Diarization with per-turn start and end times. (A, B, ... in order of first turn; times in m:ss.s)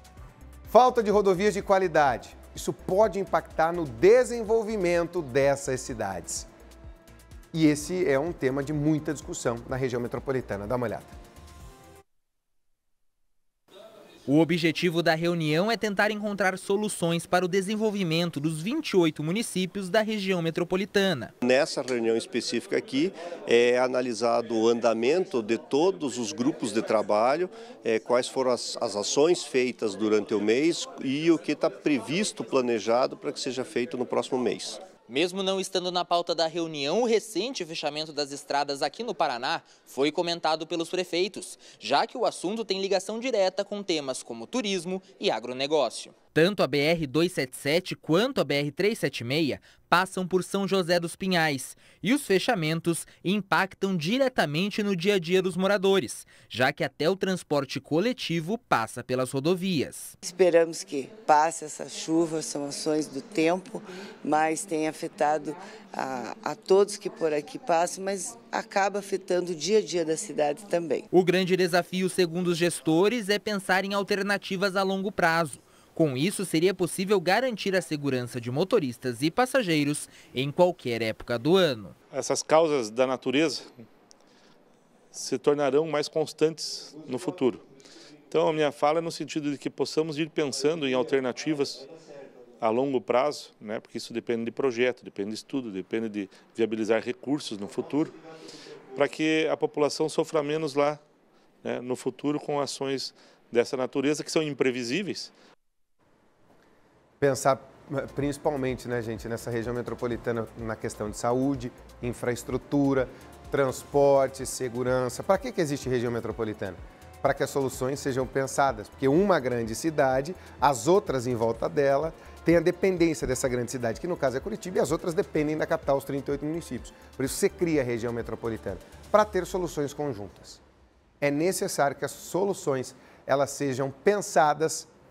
0:00.7-0:06.5 A
0:07.5-0:11.1 A
0:14.3-0:21.3 B
0:21.4-0:34.8 C
0:35.1-1:00.2 B
1:00.2-1:11.0 D
1:11.1-1:21.9 B
1:22.1-1:23.7 E
1:25.1-1:27.6 E
1:28.3-1:31.8 E
1:32.6-1:38.1 E
1:38.9-1:41.0 E
1:41.6-1:45.3 E
1:47.2-2:10.6 A
2:11.2-2:14.9 A